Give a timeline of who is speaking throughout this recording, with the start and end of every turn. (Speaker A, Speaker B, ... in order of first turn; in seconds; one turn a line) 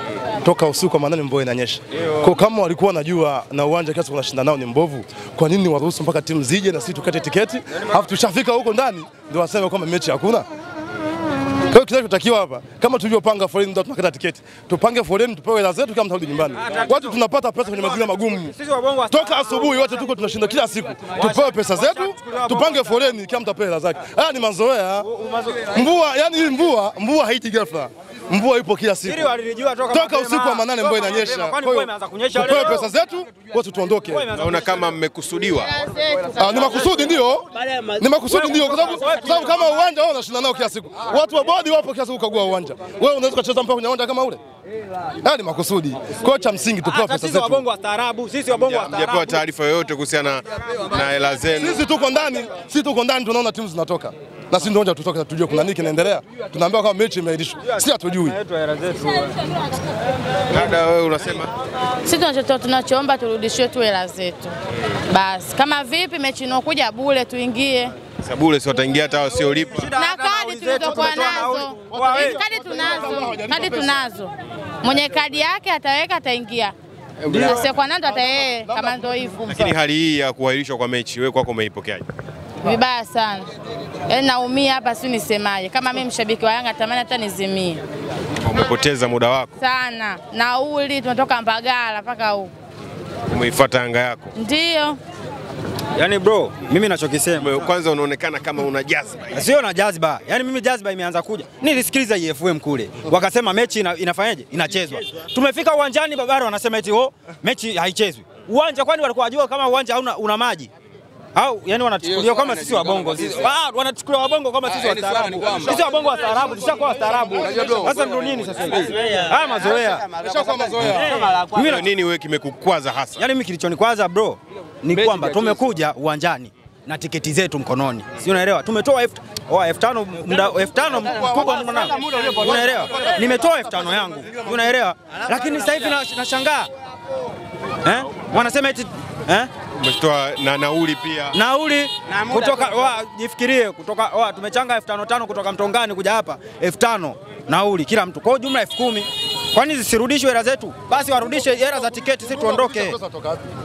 Speaker A: 0.4-10.5
Speaker B: 7.7-8.0
Speaker A: 11.7-18.5
Speaker B: 16.5-20.0
Speaker A: 19.1-25.1
Speaker B: 21.1-23.0
Speaker B: 25.0-25.9
Speaker A: 25.7-29.3
Speaker B: 29.0-32.9
Speaker A: 29.9-34.3
Speaker B: 34.1-34.9
Speaker C: 34.3-35.8
Speaker D: 35.7-36.9
Speaker A: 36.4-44.4
Speaker B: 37.6-39.8
Speaker A: 45.2-47.7
Speaker B: 46.8-49.4
Speaker C: 48.5-51.9
Speaker A: 51.6-58.4
Speaker B: 57.6-59.5
Speaker C: 60.5-61.5
Speaker D: 62.0-64.5
Speaker D: 65.1-67.9
Speaker C: 68.2-69.9
Speaker B: 69.5-72.4
Speaker D: 70.0-76.8
Speaker A: 71.9-74.0
Speaker D: 77.3-79.4
Speaker B: 77.3-77.7
Speaker A: 77.3-79.7
Speaker C: 79.5-82.1
Speaker D: 82.6-83.5
Speaker D: 84.1-87.8
Speaker C: 88.4-89.6
Speaker D: 89.6-92.5
Speaker C: 93.3-94.4
Speaker D: 94.4-95.0
Speaker B: 96.0-97.5
Speaker C: 97.4-99.5
Speaker B: 99.3-110.7
Speaker B: 111.3-120.2
Speaker A: 117.1-118.0
Speaker A: 119.4-121.1
Speaker B: 120.8-121.9
Speaker C: 121.5-123.2
Speaker B: 123.2-136.7
Speaker A: 130.7-134.8
Speaker B: 137.8-139.5
Speaker C: 139.8-141.4
Speaker B: 141.3-153.0
Speaker A: 151.5-153.4